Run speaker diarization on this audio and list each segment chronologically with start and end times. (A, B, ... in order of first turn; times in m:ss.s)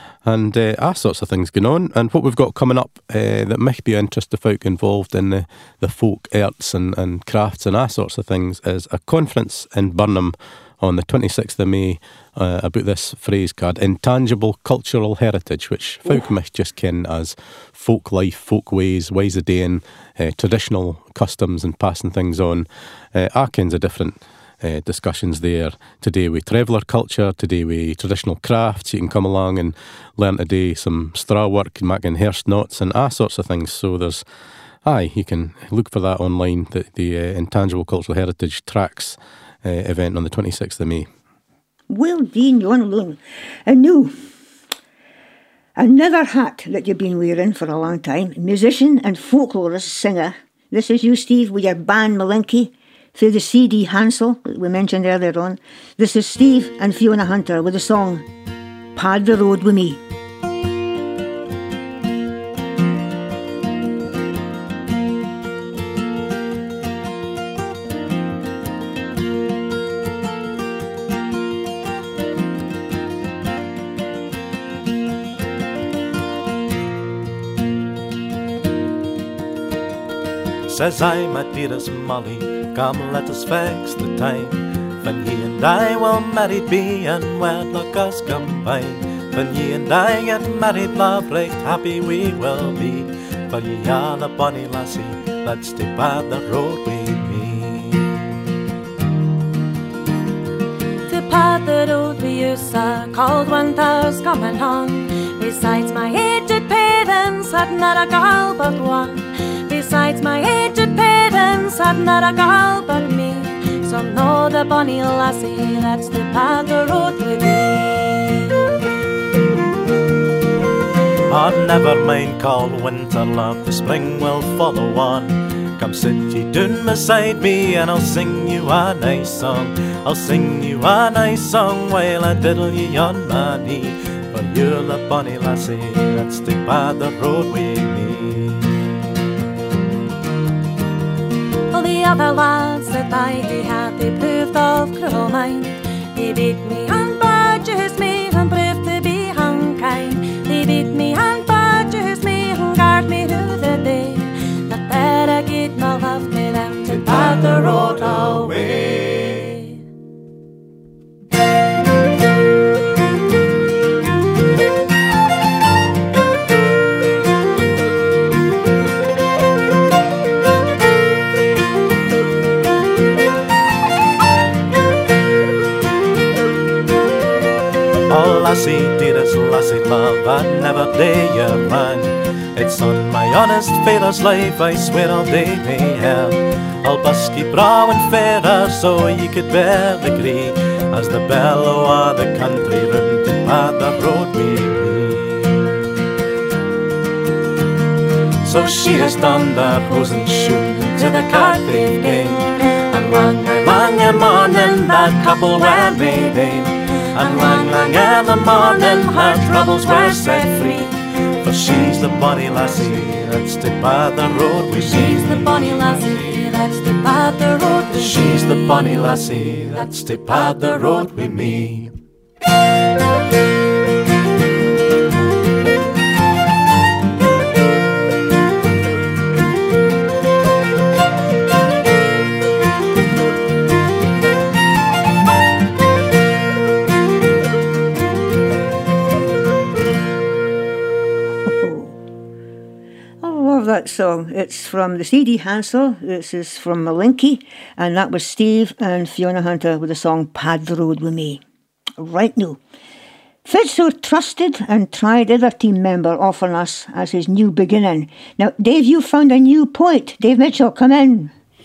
0:00.2-0:34.2 A
0:34.8-0:41.1 A
0:41.9-0:44.1 B
0:45.8-0:58.3 B
0:59.0-1:00.0 B
1:20.7-1:38.2 C
1:41.1-1:58.4 D
2:01.3-2:18.7 C
2:21.7-2:39.8 D
2:37.0-2:38.9 C
2:58.1-3:15.7 C
3:18.4-3:35.6 C
3:21.1-3:22.2 D
3:27.3-3:30.8 D
3:34.8-3:38.3 D
3:38.0-3:41.9 C
4:01.5-4:02.0 B
4:03.2-4:11.4 B
4:12.0-4:12.6 B
4:13.4-4:21.3 B